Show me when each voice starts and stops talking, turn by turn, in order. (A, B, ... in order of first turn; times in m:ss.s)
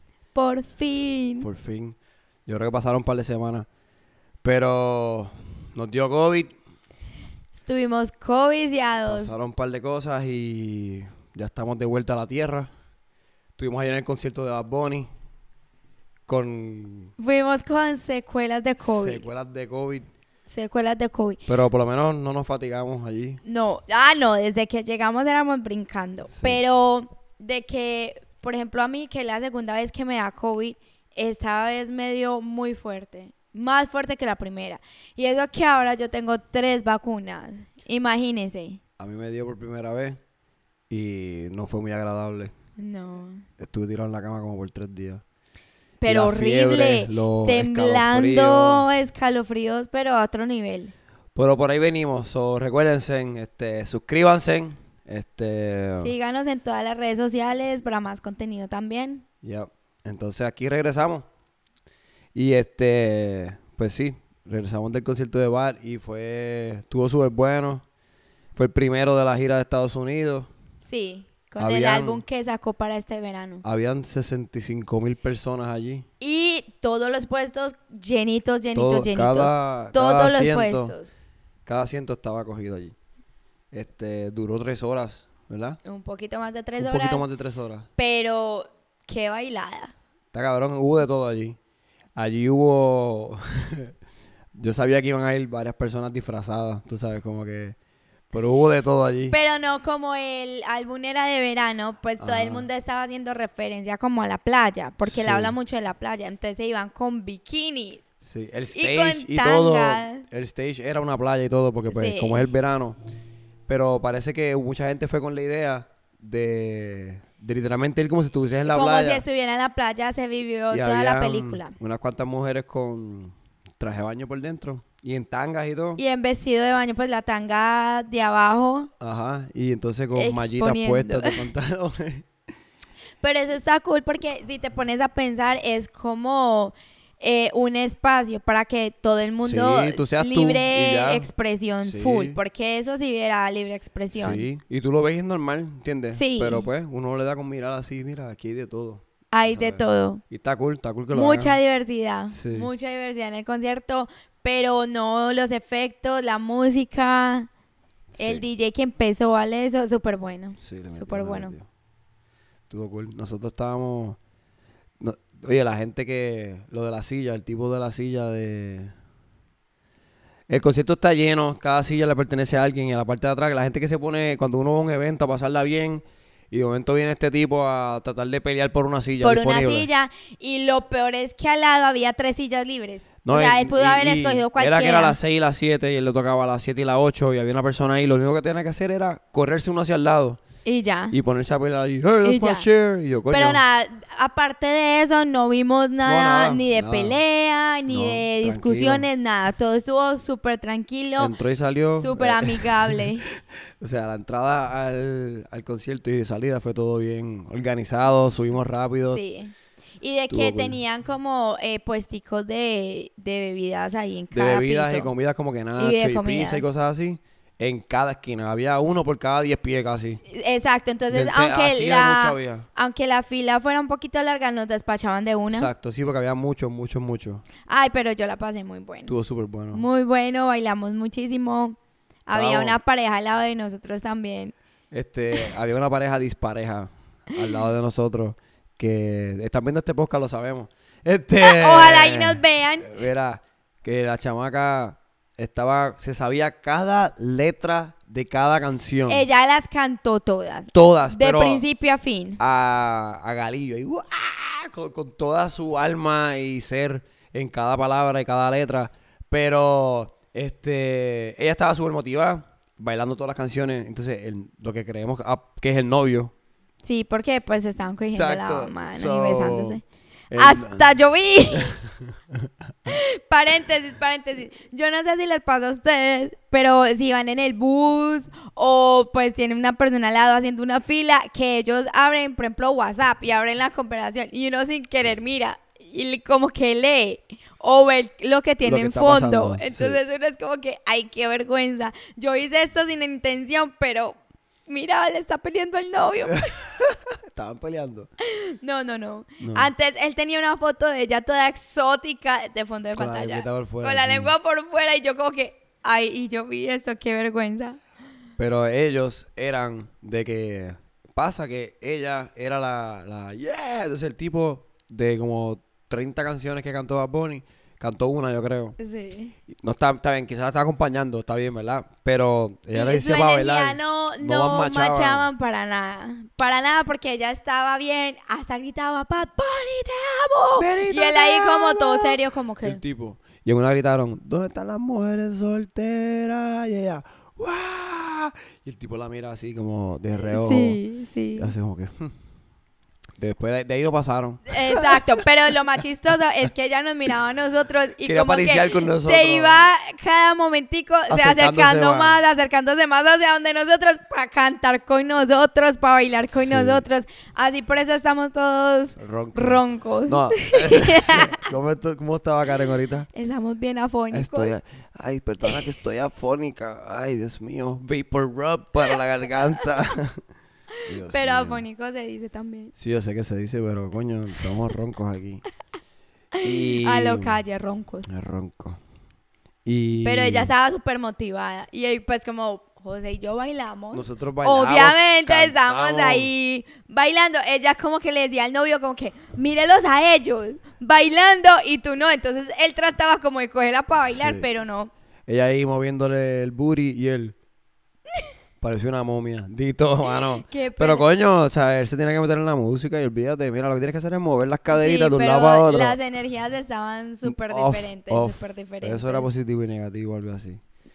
0:00.3-0:01.5 A
0:01.4-0:03.6 B
0:04.4-0:06.5 B
0:07.5-0:09.3 A
0:09.0-0:12.7 B
0:13.6-0:15.1 B
0:16.3-0:17.1 B
0:17.2-0:19.2 A
0:18.8-0:20.1 B
0:20.5-0:21.4 A
0:21.4-0:23.4 B
0:23.4-0:38.8 A
0:26.3-0:26.6 B
0:39.0-0:40.2 B
0:40.9-0:42.5 B
0:42.8-0:43.4 A
0:43.6-0:45.2 B
0:46.0-0:50.9 A
0:46.0-0:48.9 B
0:51.3-0:56.1 B
0:56.0-0:59.2 A
0:59.4-1:01.2 B
1:02.3-1:07.8 B
1:08.5-1:10.5 B
1:10.8-1:13.6 A
1:11.6-1:12.2 B
1:13.6-1:16.0 B
1:16.2-1:21.1 A
1:18.7-1:20.9 B
1:21.6-1:22.9 B
1:23.7-1:25.8 B
1:25.8-1:27.2 A
1:26.8-1:27.9 B
1:28.0-1:29.9 A
1:30.3-1:31.6 B
1:32.1-1:33.9 B
1:34.5-1:37.8 B
1:38.3-1:39.4 B
1:39.3-1:48.0 A
1:42.2-1:42.7 B
1:45.0-1:45.6 B
1:48.2-1:53.0 B
1:48.7-1:50.2 A
1:51.9-1:52.5 A
1:53.7-1:59.2 B
1:58.6-2:01.8 A
2:00.7-2:06.0 B
2:06.0-2:08.9 A
2:09.0-2:12.3 B
2:10.1-2:11.4 A
2:13.2-2:24.5 A
2:19.4-2:21.3 B
2:21.8-2:22.4 B
2:24.1-2:31.6 B
2:26.1-2:26.7 A
2:29.3-2:30.2 A
2:31.1-2:37.5 A
2:32.3-2:32.7 B
2:38.1-2:38.4 B
2:38.2-2:41.5 A
2:40.6-2:41.6 B
2:42.7-2:44.2 B
2:45.0-2:48.9 B
2:50.5-2:59.9 B
2:59.2-3:05.2 A
3:03.2-3:10.4 B
3:10.6-3:11.1 A
3:11.1-3:13.6 B
3:12.2-3:12.7 A
3:13.3-3:21.3 A
3:16.0-3:17.2 B
3:17.9-3:19.0 B
3:21.2-3:23.1 B
3:22.0-3:23.2 A
3:23.8-3:29.2 B
3:29.1-3:35.1 A
3:30.3-3:30.8 B
3:34.3-3:40.2 B
3:35.8-3:36.7 A
3:40.3-3:45.7 A
3:41.1-3:42.6 B
3:45.5-3:47.4 B
3:47.7-3:49.1 A
3:49.1-3:49.8 B
3:49.7-3:54.5 A
3:52.3-3:52.8 B
3:54.9-4:09.2 B
4:01.4-4:03.0 A
4:09.1-4:12.4 A
4:10.7-4:11.6 B
4:12.4-4:26.3 B
4:26.8-4:29.8 A
4:28.0-4:29.8 B
4:30.3-4:30.9 B
4:30.3-4:31.8 A
4:31.5-4:32.5 B
4:32.9-4:54.2 A
4:48.6-4:50.0 B
4:54.7-4:56.5 A
4:56.3-4:58.1 B
4:58.2-5:07.8 A
4:59.4-4:59.7 B
5:02.9-5:04.3 B
5:08.4-5:18.8 B
5:18.8-5:19.3 A
5:19.5-5:25.3 B
5:22.7-5:32.8 A
5:30.6-5:40.8 B
5:40.1-5:41.5 A
5:41.4-5:42.1 B
5:43.2-5:45.0 B
5:44.5-6:01.4 A
5:48.0-5:49.7 B
5:51.1-5:52.2 B
5:56.3-5:56.8 B
5:59.0-6:03.1 B
6:03.1-6:04.5 A
6:04.1-6:10.2 B
6:10.8-6:12.7 A
6:10.8-6:11.6 B
6:12.8-6:15.4 B
6:16.4-6:18.1 A
6:16.4-6:17.4 B
6:18.1-6:18.8 B
6:19.6-6:20.5 B
6:20.0-6:34.9 A
6:23.9-6:26.3 B
6:34.1-6:34.4 B
6:35.3-6:37.3 B
6:38.6-6:46.0 B
6:40.0-6:41.0 A
6:44.7-6:49.3 A
6:47.2-6:50.6 B